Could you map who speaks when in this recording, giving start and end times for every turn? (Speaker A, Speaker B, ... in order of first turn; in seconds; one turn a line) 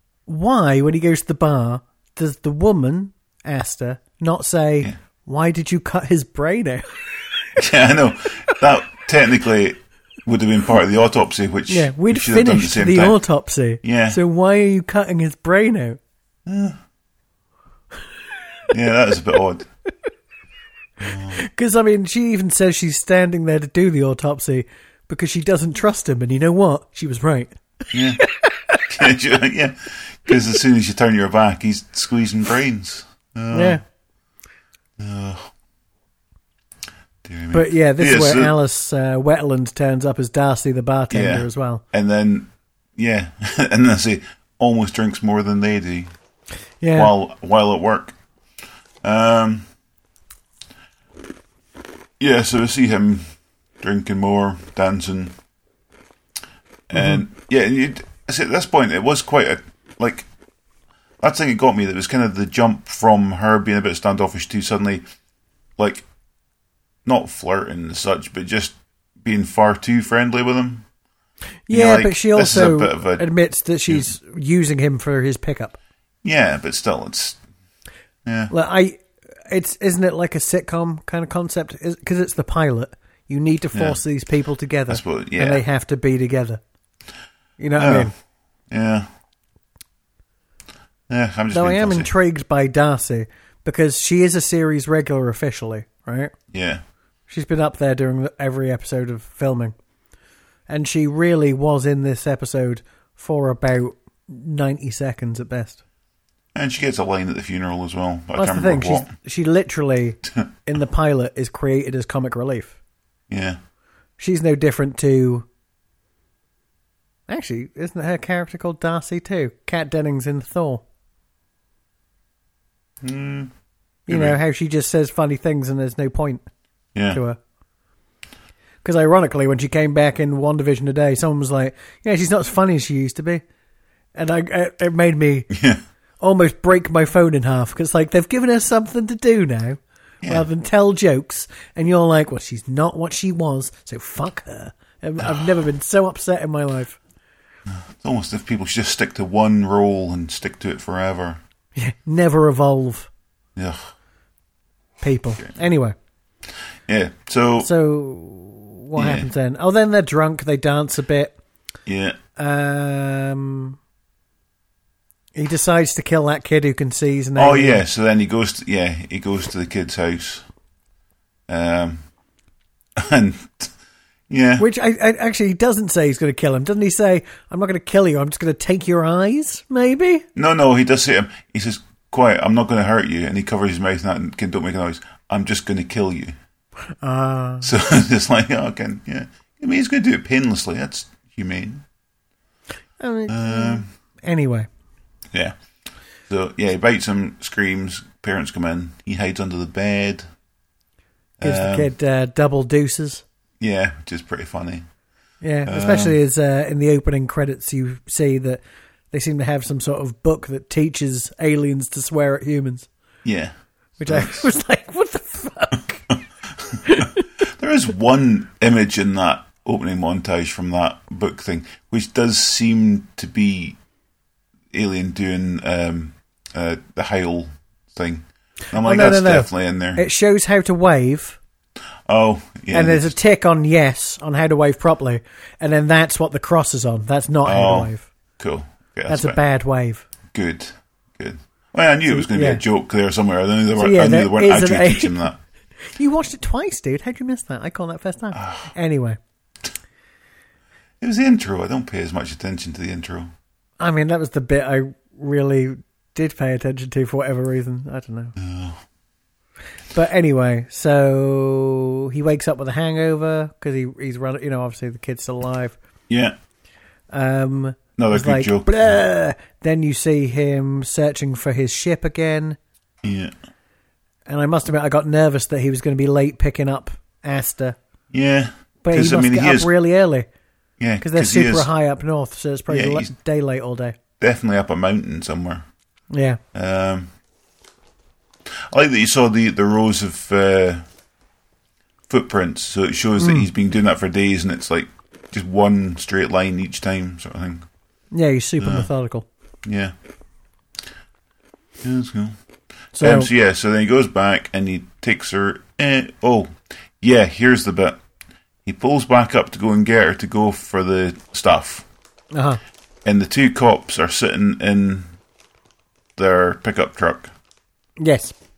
Speaker A: 0.3-7.5
Speaker B: 7.5-13.2
Speaker A: 11.7-16.0
Speaker B: 13.8-14.2
Speaker B: 16.4-16.8
Speaker B: 18.7-19.7
Speaker B: 21.0-21.4
Speaker A: 21.2-27.5
Speaker B: 27.9-28.2
Speaker A: 28.2-28.8
Speaker B: 28.9-33.8
Speaker A: 33.5-33.8
Speaker B: 35.0-35.5
Speaker B: 37.2-38.5
Speaker A: 37.5-41.8
Speaker B: 41.1-46.1
Speaker A: 46.8-47.1
Speaker B: 46.9-48.1
Speaker B: 49.0-49.6
Speaker B: 52.2-53.2
Speaker B: 53.8-55.3
Speaker B: 56.9-60.3
Speaker A: 56.9-57.2
Speaker B: 61.2-65.0
Speaker B: 65.8-66.0
Speaker B: 67.0-70.8
Speaker A: 71.7-75.8
Speaker B: 71.7-73.3
Speaker B: 76.2-77.4
Speaker B: 78.2-78.5
Speaker A: 78.5-86.6
Speaker B: 83.7-84.0
Speaker B: 84.9-85.6
Speaker A: 87.6-88.1
Speaker B: 87.8-88.1
Speaker B: 88.7-89.1
Speaker B: 91.1-92.1
Speaker A: 91.5-96.3
Speaker B: 96.5-96.8
Speaker A: 97.3-99.7
Speaker A: 100.7-105.8
Speaker B: 106.5-109.1
Speaker A: 108.3-112.8
Speaker B: 113.3-113.6
Speaker A: 114.2-115.5
Speaker A: 117.3-120.8
Speaker B: 123.0-123.5
Speaker A: 124.1-126.4
Speaker B: 124.1-124.3
Speaker B: 126.9-127.2
Speaker A: 127.1-127.4
Speaker A: 128.8-133.4
Speaker A: 134.1-135.5
Speaker B: 135.5-135.8
Speaker A: 136.2-147.0
Speaker B: 145.2-145.5
Speaker B: 147.7-151.4
Speaker A: 151.8-153.1
Speaker B: 153.6-153.9
Speaker A: 155.0-155.9
Speaker B: 156.9-157.7
Speaker A: 157.6-161.3
Speaker B: 158.9-159.3
Speaker B: 161.8-162.2
Speaker A: 162.3-163.8
Speaker A: 165.3-167.8
Speaker B: 167.3-170.4
Speaker B: 171.5-172.0
Speaker B: 172.9-173.7
Speaker B: 174.3-174.6
Speaker A: 174.6-180.2
Speaker B: 180.3-186.3
Speaker A: 187.0-187.7
Speaker B: 187.6-191.8
Speaker A: 193.0-194.7
Speaker B: 193.3-193.9
Speaker B: 196.3-200.2
Speaker B: 201.4-201.9
Speaker A: 201.4-203.2
Speaker B: 203.6-204.8
Speaker A: 205.4-208.6
Speaker B: 205.7-206.2
Speaker A: 209.1-212.9
Speaker B: 213.2-213.5
Speaker A: 214.0-216.1
Speaker B: 214.0-214.5
Speaker B: 216.1-223.8
Speaker A: 216.9-217.2
Speaker B: 224.7-230.0
Speaker A: 228.8-231.4
Speaker B: 232.1-233.1
Speaker A: 232.7-238.1
Speaker B: 237.4-239.4
Speaker A: 239.1-240.1
Speaker B: 240.3-245.4
Speaker A: 242.1-242.6
Speaker A: 243.8-245.3
Speaker A: 245.9-249.2
Speaker B: 248.3-248.7
Speaker B: 251.0-253.3
Speaker A: 253.8-258.3
Speaker B: 258.4-258.8
Speaker A: 259.9-265.8
Speaker B: 266.1-266.3
Speaker A: 267.1-272.6
Speaker B: 268.0-269.0
Speaker B: 273.0-273.3
Speaker A: 274.3-277.8
Speaker B: 278.1-279.7
Speaker A: 278.8-280.3
Speaker B: 280.8-281.7
Speaker A: 281.0-283.9
Speaker B: 282.7-283.1
Speaker B: 284.2-285.6
Speaker A: 286.1-286.4
Speaker B: 286.5-287.1
Speaker B: 288.5-290.9
Speaker B: 292.1-297.6
Speaker A: 293.2-293.5
Speaker A: 298.1-299.3
Speaker B: 298.6-298.9
Speaker B: 299.6-299.9
Speaker B: 301.8-302.4
Speaker A: 302.9-303.3
Speaker B: 303.0-308.0
Speaker B: 308.6-311.9
Speaker A: 312.3-312.6
Speaker B: 313.0-315.1
Speaker B: 316.2-317.3
Speaker A: 318.0-318.3